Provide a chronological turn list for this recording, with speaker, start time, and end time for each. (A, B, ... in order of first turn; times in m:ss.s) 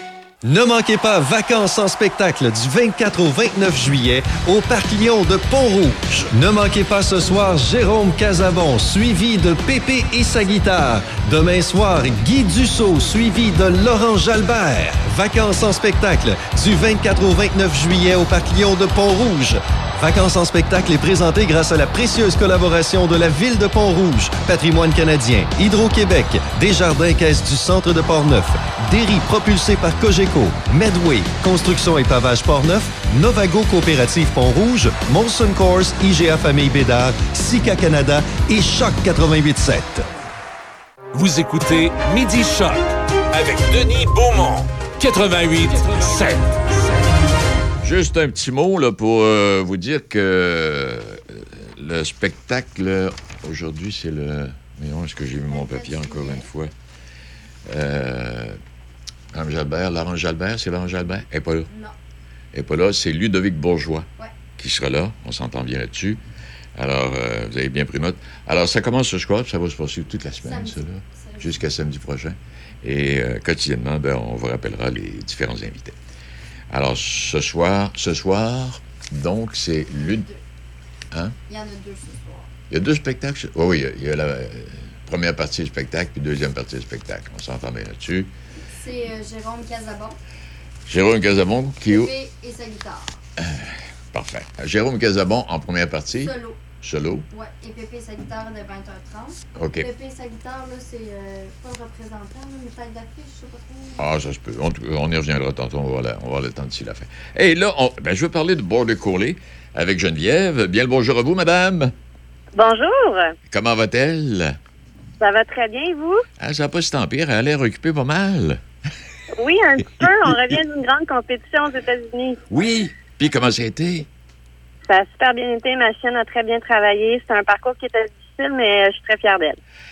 0:00.4-0:40.1 A
0:41.1-0:47.0 B
0:47.8-0:56.7 C
0:55.4-0:56.5 D
0:57.7-0:58.6 C
0:59.3-1:01.7 C
1:01.7-1:01.9 D
1:02.5-1:06.2 C
1:06.8-1:15.9 C
1:10.4-1:11.6 D
1:16.7-1:20.2 C
1:19.9-1:20.4 D
1:21.5-1:22.5 D
1:22.7-1:28.3 C
1:28.8-1:30.2 D
1:30.9-1:32.1 C
1:31.8-1:33.1 D
1:33.4-1:37.3 C
1:36.1-1:36.6 D
1:37.3-1:44.0 D
1:39.6-1:39.9 C
1:44.0-1:51.9 C
1:52.6-1:53.3 E
1:53.5-1:54.6 C
1:55.2-1:56.2 E
1:56.4-1:58.6 C
1:59.3-2:02.4 E
2:02.5-2:04.1 C
2:04.9-2:09.6 E